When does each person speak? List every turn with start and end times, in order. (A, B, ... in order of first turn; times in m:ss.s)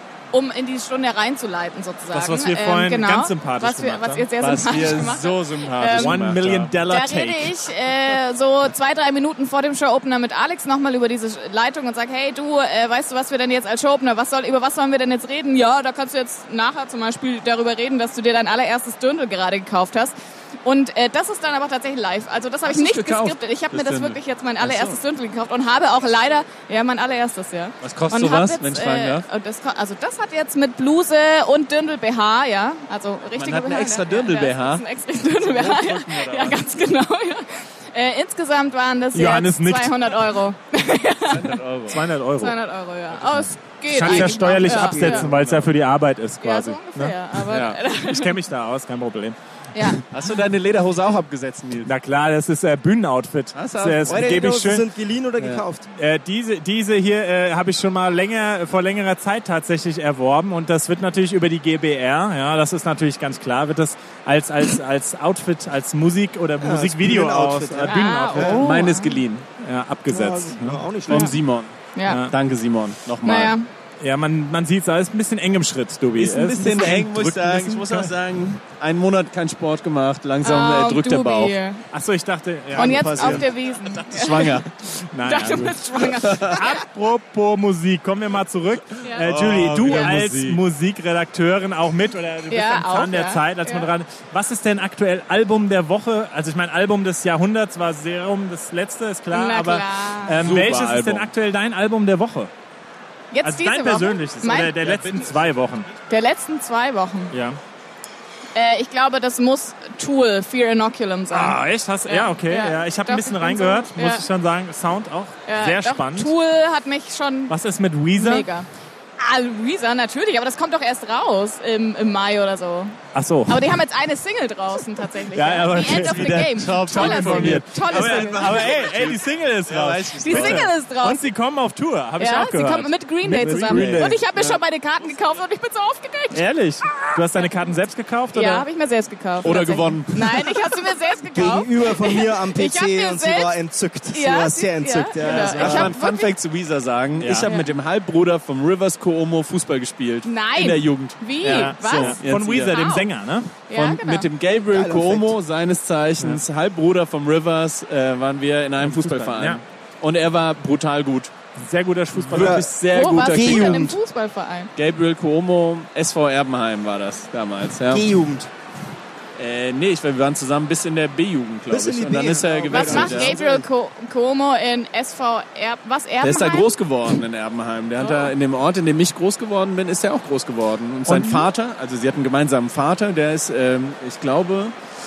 0:00.3-0:06.2 A
0:02.1-0:04.3 B
0:04.4-0:06.7 C
0:05.9-0:07.6 B
0:06.8-0:41.6 A
0:22.7-0:25.0 C
0:27.8-0:29.2 C
0:33.4-0:34.8 C
0:35.4-0:36.6 C
0:39.1-0:40.1 B
0:41.3-0:42.1 C
0:41.9-0:42.6 B
0:42.4-0:45.3 A
0:43.9-0:49.4 B
0:44.0-0:45.3 D
0:45.1-0:45.7 C
0:46.4-0:48.4 A
0:47.5-0:47.8 C
0:49.8-0:50.0 A
0:50.1-0:51.9 C
0:51.8-0:54.8 B
0:53.6-0:54.3 C
0:54.0-0:55.9 D
0:55.4-0:55.6 C
0:56.0-1:08.8 B
1:06.6-1:08.6 D
1:07.8-1:09.2 A
1:08.5-1:09.5 C
1:09.6-1:10.9 B
1:10.1-1:11.3 D
1:11.1-1:11.8 C
1:12.0-1:12.2 A
1:12.1-1:12.3 B
1:12.3-1:13.6 C
1:13.2-1:13.7 A
1:14.0-1:18.1 B
1:16.2-1:21.6 C
1:20.4-1:21.8 A
1:21.9-1:23.4 B
1:22.7-1:23.5 D
1:22.7-1:24.6 A
1:24.1-1:24.7 C
1:25.1-1:42.5 B
1:25.2-1:26.8 A
1:26.2-1:26.6 C
1:29.0-1:30.1 A
1:29.2-1:30.6 C
1:32.5-1:33.9 A
1:39.3-1:40.4 A
1:40.4-1:41.3 C
1:43.3-1:44.8 A
1:43.4-1:45.9 B
1:44.8-1:45.5 C
1:46.1-1:47.3 A
1:47.3-1:47.6 B
1:48.6-1:54.3 A
1:51.3-1:56.3 B
1:55.5-1:57.6 A
1:57.5-1:58.5 B
1:58.1-1:58.7 A
1:59.2-2:03.0 A
2:03.1-2:03.7 B
2:03.5-2:08.7 A
2:05.3-2:14.2 B
2:05.7-2:10.7 C
2:10.2-2:11.2 A
2:12.2-2:17.5 A
2:13.4-2:14.6 C
2:16.3-2:18.7 B
2:18.3-2:23.6 A
2:19.4-2:20.6 C
2:21.3-2:25.9 D
2:24.1-2:26.3 A
2:25.2-2:32.8 C
2:27.2-2:27.5 B
2:27.4-2:27.7 A
2:30.2-2:33.1 A
2:31.4-2:33.6 B
2:33.7-2:34.3 A
2:33.7-2:41.3 C
2:34.7-2:35.4 D
2:38.8-2:39.6 B
2:41.6-2:43.8 B
2:42.2-2:44.0 C
2:42.3-2:42.7 D
2:42.9-2:44.7 A
2:43.3-2:43.9 D
2:44.8-2:48.1 C
2:47.9-2:48.5 D
2:49.4-2:53.4 C
2:51.7-2:53.7 D
2:52.7-2:56.8 A
2:56.2-3:04.7 C
2:58.0-2:58.3 A
3:01.1-3:01.4 A